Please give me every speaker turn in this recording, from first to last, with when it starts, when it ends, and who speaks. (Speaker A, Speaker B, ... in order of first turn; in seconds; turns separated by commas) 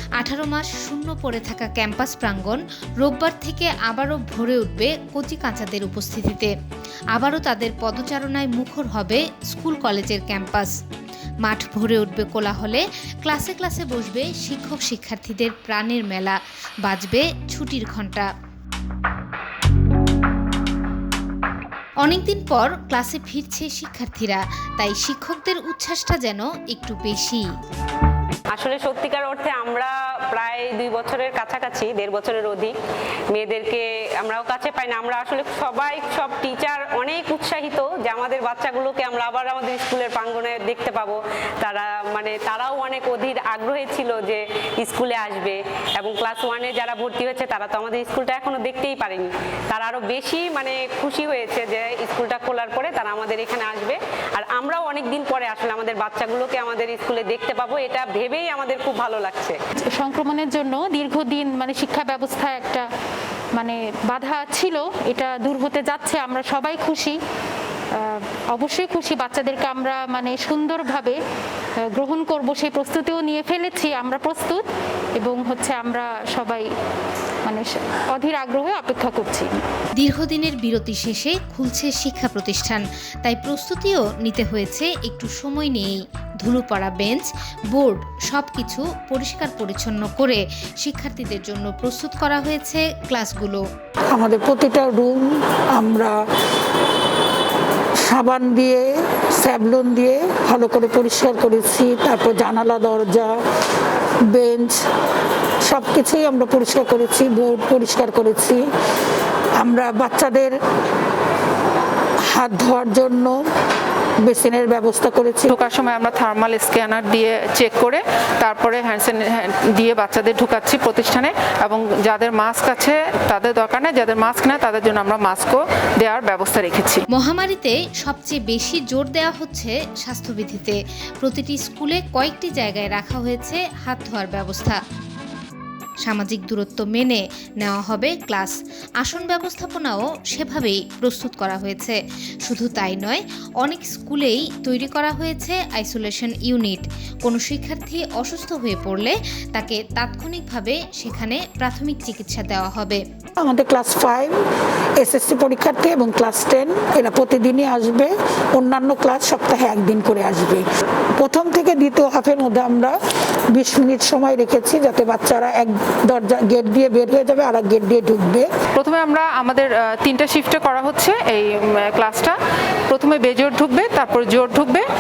Speaker A: 0.2-6.5, Speaker A: 7.1-10.7, Speaker A: 11.4-18.3, Speaker A: 22.0-27.5, Speaker B: 28.5-32.7, Speaker B: 33.3-59.6, Speaker C: 60.0-62.9, Speaker C: 63.6-67.2, Speaker C: 68.0-71.2, Speaker C: 71.9-74.6, Speaker C: 75.2-76.7, Speaker C: 77.5-79.6, Speaker A: 80.0-93.6, Speaker D: 94.1-96.2, Speaker D: 98.0-103.3, Speaker D: 104.3-104.8, Speaker D: 105.7-108.6, Speaker D: 109.6-110.6, Speaker D: 112.3-113.4, Speaker D: 114.2-115.6, Speaker E: 115.5-127.0, Speaker A: 127.1-134.8, Speaker A: 136.0-153.0, Speaker D: 153.4-154.3, Speaker D: 155.0-160.7, Speaker D: 161.2-163.0, Speaker D: 163.5-168.5, Speaker E: 168.8-172.4, Speaker E: 172.9-174.8